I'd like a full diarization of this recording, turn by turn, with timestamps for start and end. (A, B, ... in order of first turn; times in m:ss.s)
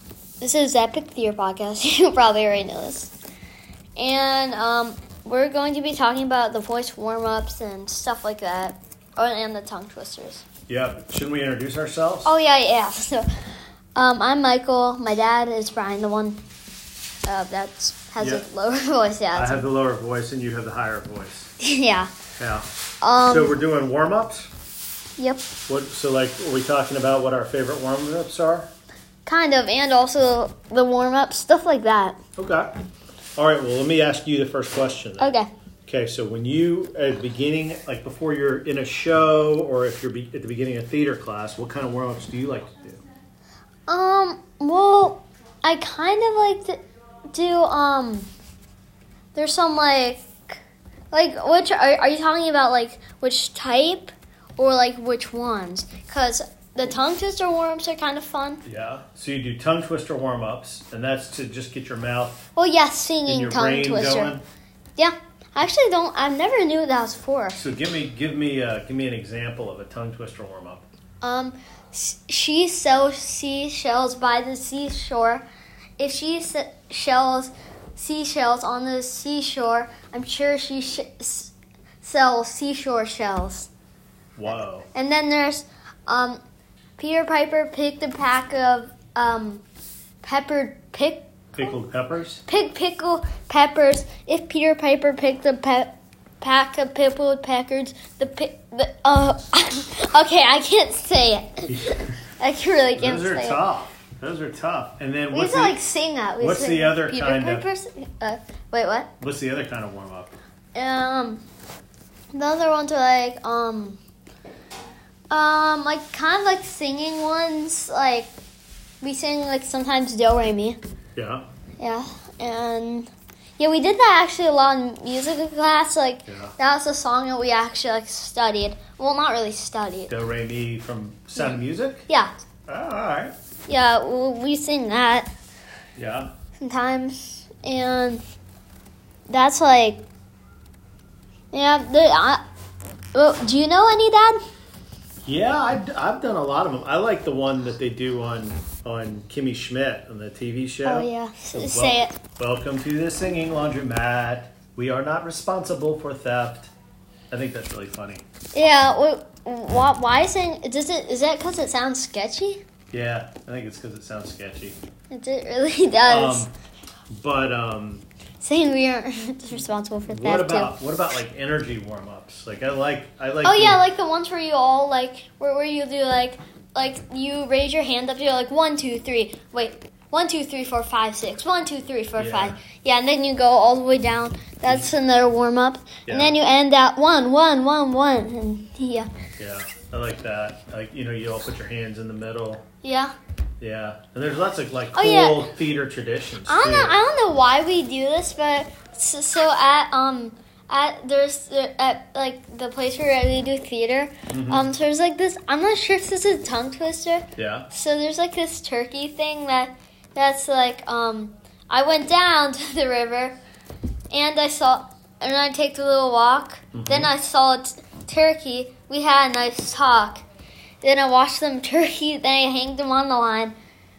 0:00.4-0:03.1 A
0:04.0-0:10.4 A
0:10.7-0:12.3 B
0:12.2-0:13.3 A
0:14.0-0:16.4 A
0:17.2-0:19.6 A
0:18.2-0:18.4 B
0:19.3-0:21.5 B
0:21.6-0:22.1 A
0:22.4-0:22.7 B
0:23.0-0:23.6 A
0:23.2-0:24.5 B
0:25.2-0:25.5 A
0:25.7-0:28.7 B
0:29.2-0:32.2 A
0:32.4-0:32.7 B
0:33.4-0:35.3 B
0:35.2-0:35.5 A
0:35.8-0:43.0 B
0:43.9-0:48.3 A
0:49.3-0:50.6 A
0:51.1-0:58.6 A
0:58.6-1:02.4 B
1:02.6-1:04.4 A
1:03.3-1:04.4 B
1:05.0-1:07.6 A
1:07.6-1:10.9 B
1:11.2-1:15.4 A
1:16.0-1:23.7 A
1:24.4-1:24.9 B
1:24.9-1:26.4 A
1:27.0-1:29.6 A
1:30.2-1:31.3 A
1:31.5-1:32.4 B
1:32.5-1:41.8 A
1:41.7-1:42.0 B
1:42.4-1:43.6 A
1:43.0-1:45.8 B
1:45.3-1:49.1 A
1:46.4-1:47.6 B
1:49.2-1:50.3 B
1:50.7-1:51.4 A
1:52.3-1:54.0 A
1:55.3-1:58.3 A
1:59.0-2:00.8 A
2:01.2-2:01.4 B
2:01.8-2:10.1 A
2:06.3-2:06.5 B
2:10.1-2:12.0 B
2:12.7-2:13.3 B
2:13.7-2:15.3 A
2:16.0-2:16.3 B
2:16.6-2:18.2 A
2:19.3-2:20.0 A
2:21.5-2:22.4 A
2:23.1-2:24.4 A
2:25.2-2:36.7 B
2:30.8-2:32.2 A
2:37.3-2:38.2 B
2:38.5-2:42.6 A
2:42.9-2:44.8 B
2:45.1-2:46.4 A
2:46.1-2:46.5 B
2:47.1-2:48.0 B
2:48.4-2:50.8 A
2:50.1-2:53.8 B
2:53.4-3:09.1 A
3:02.2-3:02.6 B
3:04.6-3:04.9 B
3:06.1-3:06.4 B
3:09.4-3:12.6 B
3:12.8-3:13.1 A
3:13.6-3:17.0 B
3:14.9-3:15.4 A
3:16.5-3:33.4 A
3:24.3-3:24.7 B
3:27.4-3:27.7 B
3:34.1-3:40.2 A
3:36.7-3:37.1 B
3:40.8-3:43.5 A